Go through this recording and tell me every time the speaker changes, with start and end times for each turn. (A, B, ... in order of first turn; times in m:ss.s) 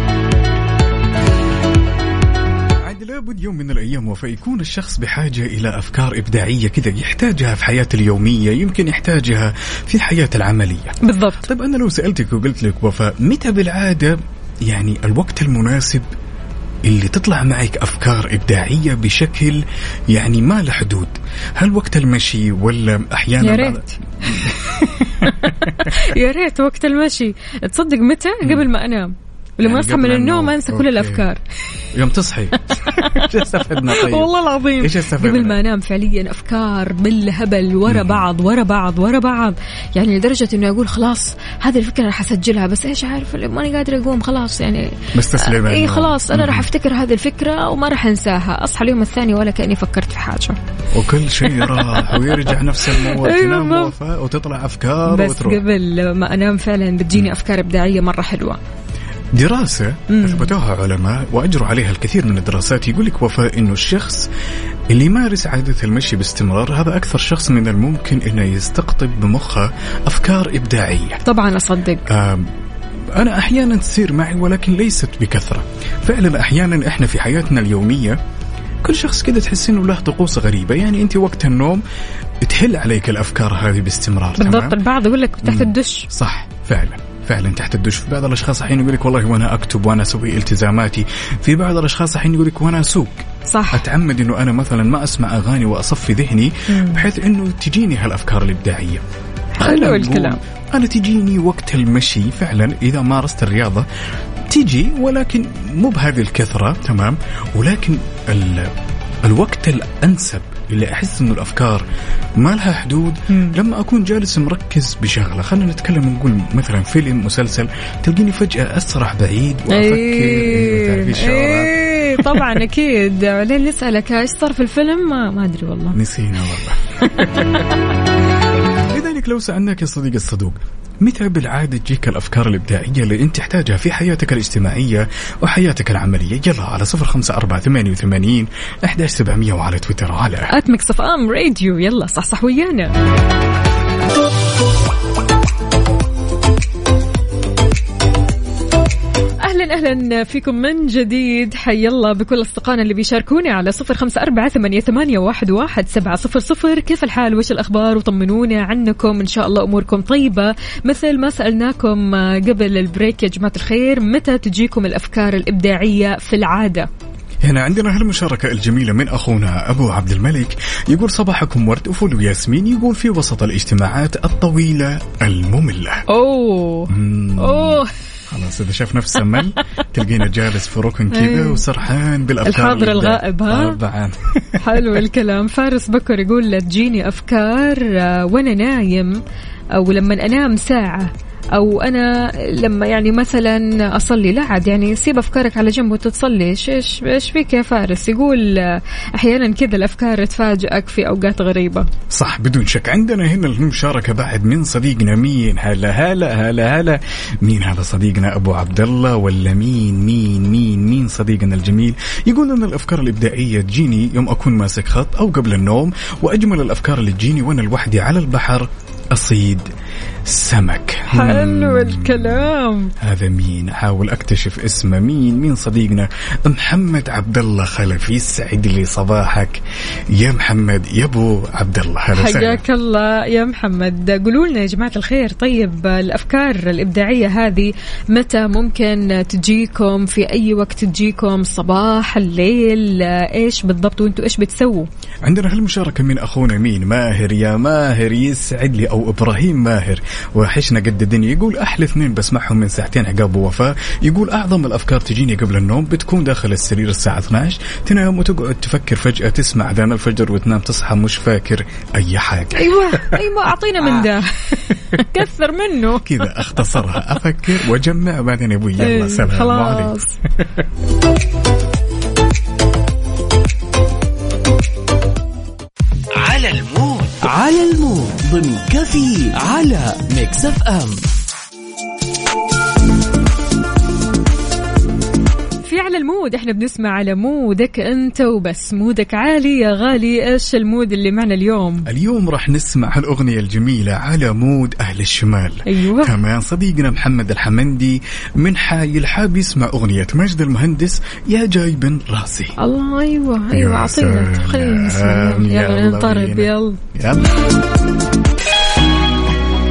0:02.8-0:16.0 A
0:11.0-0:11.5 B
0:16.8-0:25.9 A
0:23.4-0:24.0 B
0:25.8-0:31.4 B
0:28.4-0:28.7 A
0:29.6-0:31.2 A
0:31.9-0:35.6 A
0:32.7-0:33.3 B
0:33.9-0:50.6 B
0:37.9-0:38.2 A
0:45.1-0:46.7 A
0:50.9-0:55.6 A
0:52.9-0:53.9 B
0:55.1-0:58.6 B
0:59.3-1:04.3 A
1:00.1-1:00.5 B
1:04.9-1:11.2 A
1:11.2-1:12.0 B
1:12.1-1:12.5 A
1:13.1-1:18.2 A
1:18.8-1:21.8 A
1:22.4-1:24.8 A
1:24.4-1:26.1 B
1:25.4-1:39.0 A
1:33.5-1:33.8 B
1:36.7-1:37.0 B
1:39.6-1:40.4 B
1:39.6-1:43.9 A
1:44.5-1:48.7 A
1:49.2-1:51.8 A
1:52.4-2:02.6 A
1:59.7-2:06.0 B
2:05.9-2:07.7 A
2:07.2-2:07.5 B
2:08.9-2:20.5 A
2:20.5-2:22.9 B
2:29.4-2:46.9 B
2:47.4-2:56.0 A
2:56.1-2:57.9 B
2:56.9-3:05.0 A
3:01.1-3:01.6 B
3:02.4-3:03.8 B
3:04.6-3:09.2 B
3:09.7-3:21.9 B
3:22.1-3:39.7 A
3:40.2-3:49.6 A
3:41.1-3:42.9 B
3:50.1-3:52.6 A
3:52.1-4:04.9 B
4:05.2-4:23.2 A
4:22.6-4:26.1 B
4:26.0-4:30.6 A
4:28.8-4:30.2 B
4:36.2-4:41.0 C
4:45.6-4:51.8 B
4:51.9-5:02.6 A
4:55.7-4:56.1 B
5:02.6-5:06.8 B
5:03.5-5:07.3 A